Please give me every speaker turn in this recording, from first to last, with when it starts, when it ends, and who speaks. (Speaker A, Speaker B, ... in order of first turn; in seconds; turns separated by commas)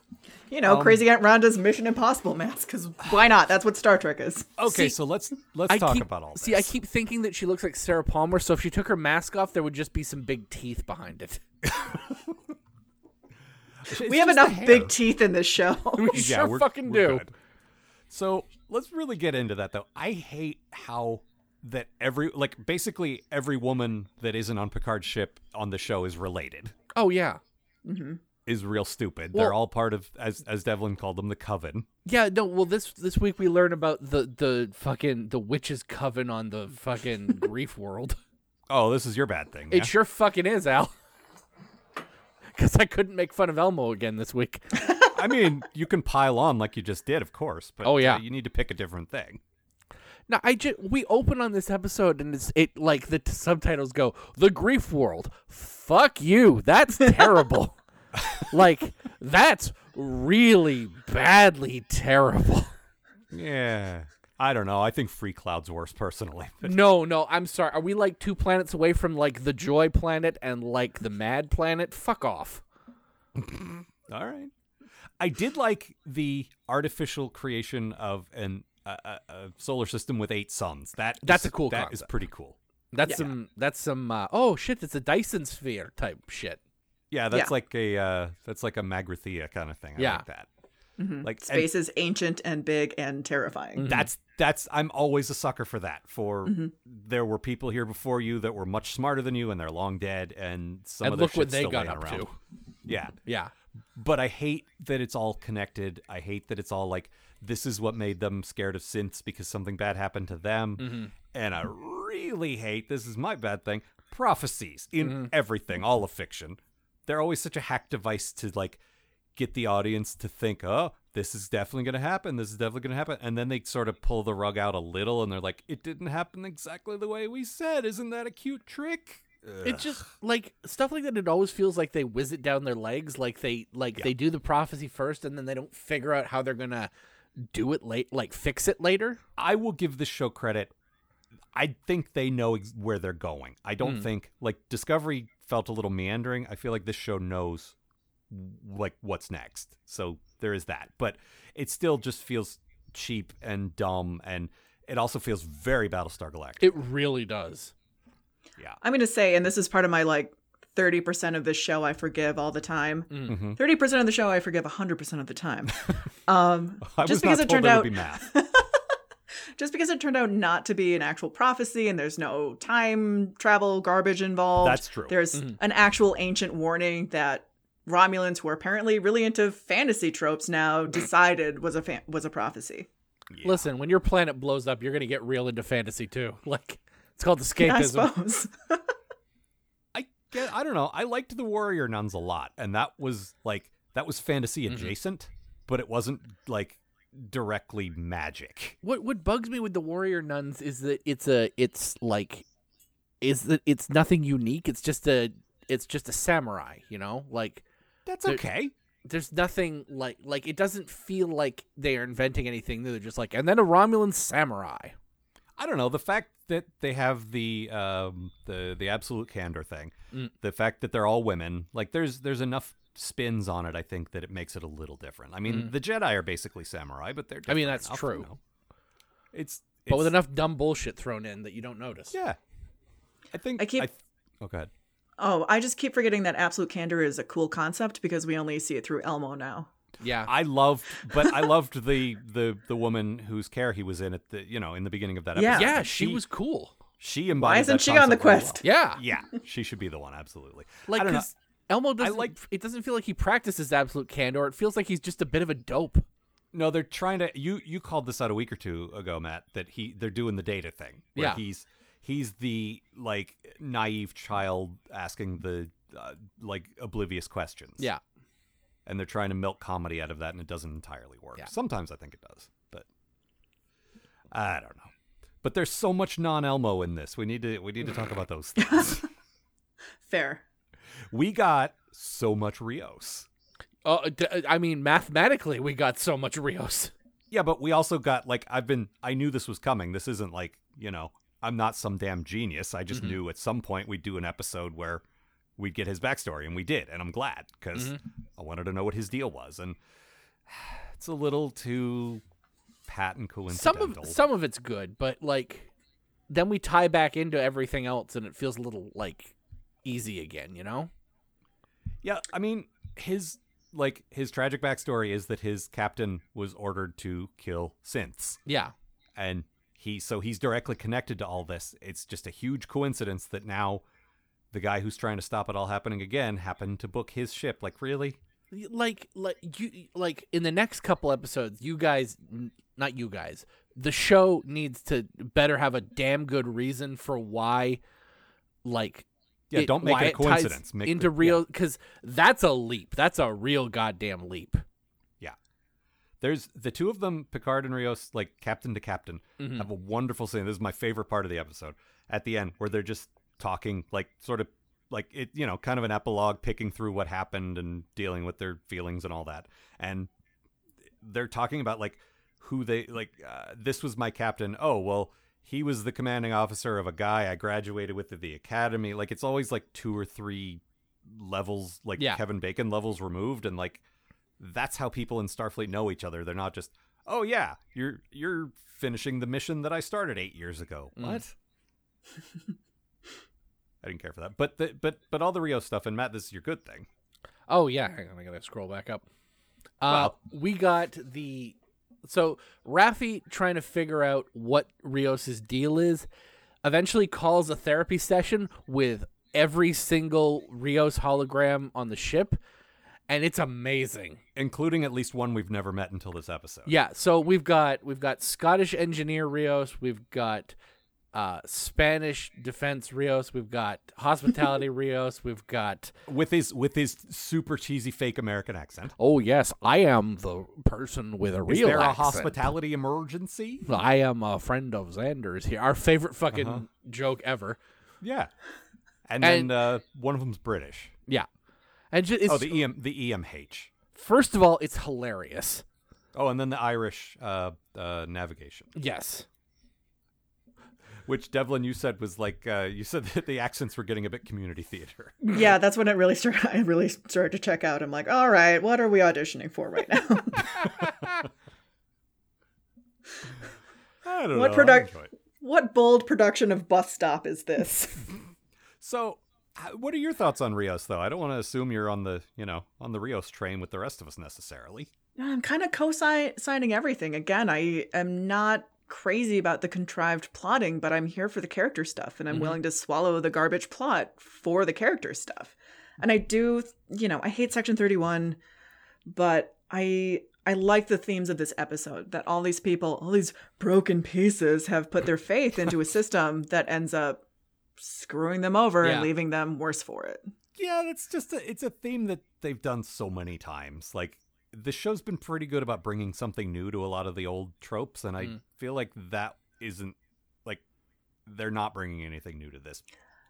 Speaker A: 0.5-4.6, Speaker B: 0.6-1.1, Speaker B: 4.6-6.7, Speaker C: 4.7-4.9, Speaker C: 5.7-11.4, Speaker B: 13.9-14.9, Speaker A: 14.0-16.2, Speaker C: 16.0-17.2, Speaker B: 16.1-17.3, Speaker B: 18.1-26.8, Speaker C: 26.9-27.4, Speaker A: 27.9-28.2, Speaker B: 28.5-31.9, Speaker C: 32.1-38.2, Speaker B: 38.7-39.9, Speaker C: 39.7-40.9, Speaker C: 42.5-44.8, Speaker B: 45.1-49.4, Speaker C: 47.8-48.2, Speaker C: 50.3-57.8, Speaker C: 58.4-62.7, Speaker B: 63.3-66.8, Speaker C: 66.6-72.6, Speaker B: 73.4-74.5, Speaker B: 75.2-83.3, Speaker C: 81.2-82.1, Speaker C: 82.9-86.6, Speaker B: 87.1-90.5, Speaker C: 90.0-90.2, Speaker A: 91.0-93.9, Speaker B: 91.2-91.7, Speaker C: 93.8-94.1, Speaker B: 93.8-102.2, Speaker A: 96.5-96.7, Speaker C: 101.0-102.4, Speaker B: 102.9-103.2, Speaker C: 103.3-103.5, Speaker B: 104.0-118.8, Speaker C: 110.8-111.1, Speaker B: 119.4-130.0, Speaker C: 129.6-139.2, Speaker B: 139.4-140.7, Speaker B: 141.6-147.8, Speaker C: 143.8-144.1, Speaker B: 148.3-156.8, Speaker C: 156.6-157.7, Speaker A: 158.8-168.7, Speaker B: 163.3-163.6, Speaker B: 166.8-168.3, Speaker A: 169.6-182.9, Speaker B: 174.6-175.2, Speaker B: 183.3-183.7, Speaker C: 183.4-188.1, Speaker A: 187.6-188.8, Speaker B: 189.9-198.8, Speaker C: 194.7-194.9, Speaker C: 198.8-202.4, Speaker C: 203.2-207.7, Speaker B: 208.1-208.7, Speaker C: 209.1-214.9, Speaker B: 215.6-228.4, Speaker C: 227.5-228.3, Speaker B: 229.3-230.2, Speaker C: 229.9-232.2, Speaker B: 232.1-232.4, Speaker B: 233.3-234.7, Speaker A: 233.6-233.9, Speaker A: 235.2-239.7, Speaker C: 240.0-240.3, Speaker B: 240.3-246.2, Speaker A: 245.3-245.8, Speaker C: 245.5-246.7, Speaker B: 247.0-251.3, Speaker A: 247.3-248.6, Speaker C: 248.6-249.0, Speaker C: 250.9-256.1, Speaker B: 252.0-252.4, Speaker B: 256.5-267.9, Speaker C: 261.1-261.4, Speaker B: 268.9-272.9, Speaker B: 274.3-274.9, Speaker B: 275.4-279.1, Speaker A: 280.1-280.4, Speaker B: 281.1-283.3, Speaker C: 283.9-286.9, Speaker B: 287.3-295.0, Speaker C: 292.9-293.2, Speaker B: 295.6-299.8, Speaker C: 297.8-298.0, Speaker B: 300.5-302.2, Speaker B: 302.9-304.2, Speaker C: 303.5-305.7, Speaker C: 306.3-309.3, Speaker C: 309.9-310.9, Speaker B: 312.0-318.4, Speaker C: 318.5-318.7, Speaker B: 319.2-323.8, Speaker B: 324.5-328.2, Speaker C: 328.5-337.8, Speaker C: 338.6-344.6, Speaker B: 339.5-341.4, Speaker B: 346.2-360.1, Speaker C: 349.4-349.7, Speaker B: 361.0-373.8, Speaker B: 374.4-381.3, Speaker C: 381.0-381.2, Speaker B: 383.8-386.9, Speaker C: 387.5-389.0, Speaker C: 389.8-396.1, Speaker B: 389.9-390.1, Speaker C: 396.6-402.4, Speaker C: 403.1-404.2, Speaker B: 404.4-406.7, Speaker C: 406.7-410.6, Speaker C: 411.1-415.9, Speaker B: 416.1-418.9, Speaker C: 419.0-422.5, Speaker B: 421.5-423.7, Speaker C: 423.7-427.6, Speaker B: 426.3-426.6, Speaker B: 428.0-428.3, Speaker B: 429.1-430.9, Speaker C: 429.2-429.5, Speaker C: 431.9-432.6, Speaker B: 432.3-433.7, Speaker C: 433.9-435.6, Speaker B: 436.1-438.7, Speaker C: 438.8-439.3, Speaker B: 441.1-445.2, Speaker A: 445.2-450.6, Speaker B: 454.0-455.1, Speaker A: 454.3-458.1, Speaker B: 458.8-464.9, Speaker A: 465.2-478.4, Speaker C: 472.3-472.6, Speaker A: 479.1-487.2, Speaker A: 487.8-490.3, Speaker C: 488.8-489.1, Speaker B: 490.6-500.6, Speaker B: 501.3-502.8